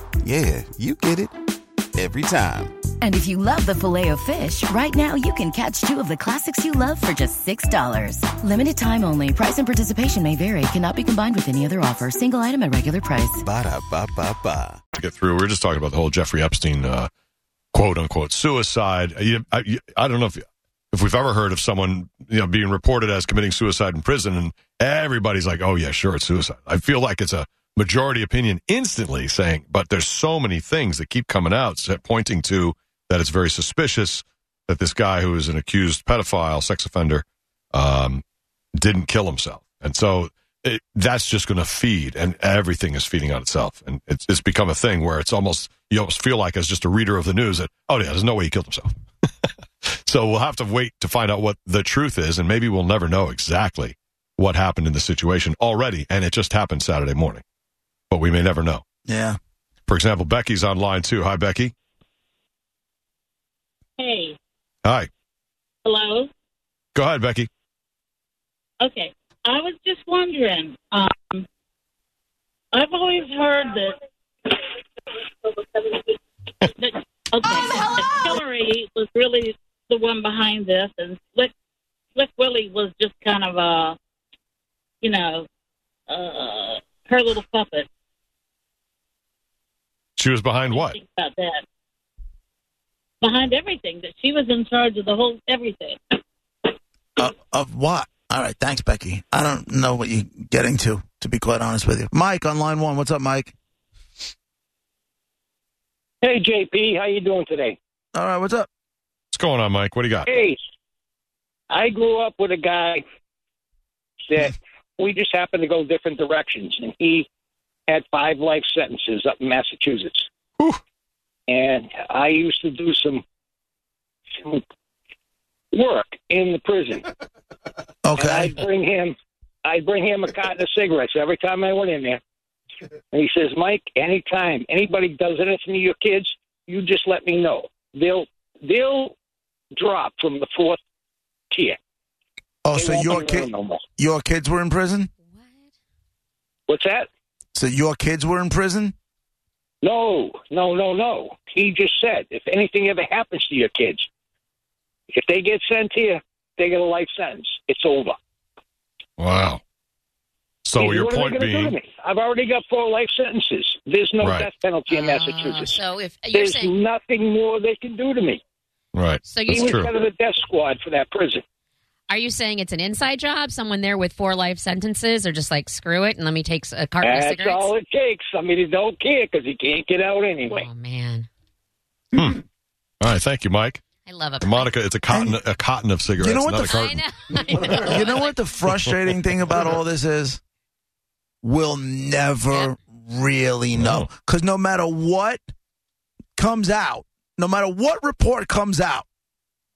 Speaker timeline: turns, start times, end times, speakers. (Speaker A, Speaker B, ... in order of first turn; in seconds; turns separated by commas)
Speaker A: 0.2-1.3, Speaker A: 1.9-2.8, Speaker B: 3.0-13.4, Speaker A: 13.4-14.8, Speaker C: 14.9-17.1, Speaker C: 17.7-38.2, Speaker C: 38.8-48.9, Speaker C: 49.8-57.4, Speaker C: 58.1-58.8, Speaker D: 59.1-59.4, Speaker C: 59.9-61.7, Speaker E: 64.0-64.4, Speaker C: 64.8-65.1, Speaker E: 65.8-66.3, Speaker C: 66.9-67.5, Speaker E: 68.8-71.4, Speaker E: 72.7-74.6, Speaker E: 75.4-76.2, Speaker E: 76.8-81.5, Speaker E: 82.1-84.0, Speaker E: 85.0-85.5, Speaker E: 86.1-87.9, Speaker C: 90.2-91.0, Speaker E: 90.7-91.6, Speaker E: 93.2-96.0, Speaker D: 97.2-103.5, Speaker F: 106.2-107.8, Speaker D: 108.1-108.7, Speaker C: 109.3-110.2, Speaker F: 110.2-110.6, Speaker F: 111.7-113.0, Speaker F: 114.2-117.3, Speaker F: 117.9-120.3, Speaker F: 121.5-123.2, Speaker F: 124.3-124.6, Speaker F: 125.7-127.1, Speaker D: 128.0-128.5, Speaker F: 128.1-132.2, Speaker F: 133.1-139.1, Speaker F: 139.7-140.8, Speaker F: 141.5-141.8, Speaker D: 142.6-145.1, Speaker F: 142.7-143.8, Speaker G: 145.2-145.7, Speaker F: 146.7-147.1, Speaker D: 147.5-148.9, Speaker F: 149.8-154.1, Speaker F: 155.1-158.2, Speaker C: 159.2-159.6, Speaker C: 160.6-161.7, Speaker F: 160.7-165.8, Speaker C: 164.2-164.5, Speaker G: 164.9-166.7, Speaker F: 166.3-168.4, Speaker C: 168.9-169.9, Speaker G: 169.2-169.7, Speaker F: 169.4-171.4, Speaker G: 172.1-177.7, Speaker F: 177.0-180.7, Speaker G: 180.5-181.3, Speaker C: 182.1-182.4, Speaker C: 183.0-183.8, Speaker G: 184.1-184.7, Speaker C: 184.4-187.0, Speaker D: 185.1-185.4, Speaker D: 186.2-186.7, Speaker G: 186.6-188.4, Speaker C: 187.6-188.0, Speaker D: 187.8-190.4, Speaker D: 191.4-195.4, Speaker C: 193.7-194.1, Speaker D: 196.4-199.1